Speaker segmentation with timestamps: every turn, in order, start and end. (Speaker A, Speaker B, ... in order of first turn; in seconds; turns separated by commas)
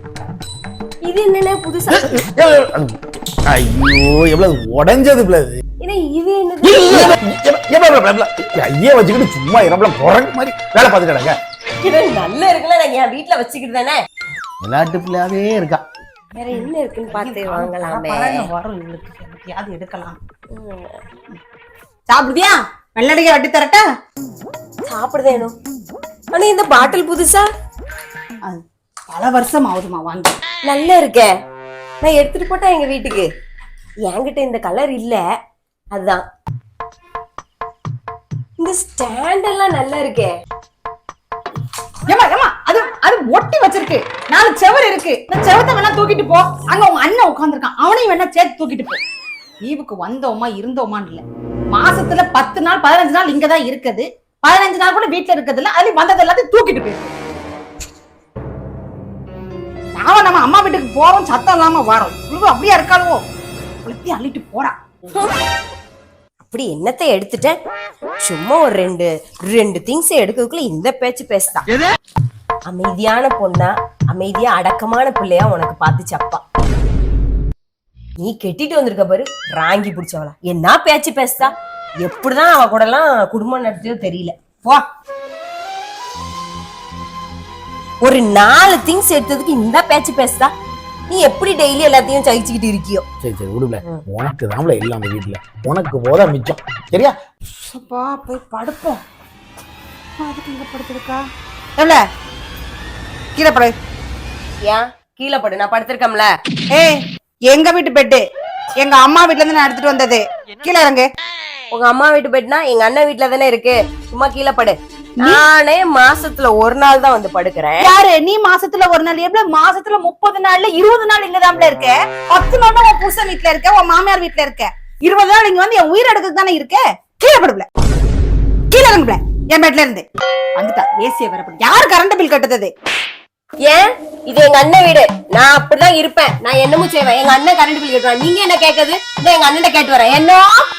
Speaker A: 1.0-2.2, Speaker B: 1.9-5.6, Speaker A: 5.8-7.2, Speaker B: 6.6-11.4, Speaker A: 11.8-14.0, Speaker B: 14.7-15.8, Speaker A: 16.4-18.5, Speaker C: 16.5-20.2, Speaker A: 20.5-21.0, Speaker C: 22.1-23.8, Speaker A: 24.9-25.5, Speaker A: 26.3-27.5, Speaker C: 28.4-30.4, Speaker A: 30.7-31.3, Speaker A: 32.0-33.3, Speaker A: 34.0-35.2, Speaker A: 35.9-36.2, Speaker A: 38.6-40.3, Speaker C: 42.1-49.0, Speaker C: 49.6-57.1, Speaker C: 60.0-63.2, Speaker C: 63.8-64.8, Speaker A: 66.5-67.6, Speaker A: 68.2-71.6, Speaker A: 72.7-76.4, Speaker A: 78.2-84.3, Speaker A: 88.0-90.5, Speaker A: 91.1-93.0, Speaker B: 93.2-97.1, Speaker C: 97.6-99.0, Speaker C: 100.2-101.2, Speaker C: 101.8-102.0, Speaker C: 103.4-103.7, Speaker A: 104.6-106.3, Speaker C: 106.7-108.2, Speaker C: 108.8-111.1, Speaker A: 111.7-117.9, Speaker C: 117.8-127.7, Speaker C: 128.7-130.0, Speaker C: 130.6-132.7, Speaker A: 133.6-140.6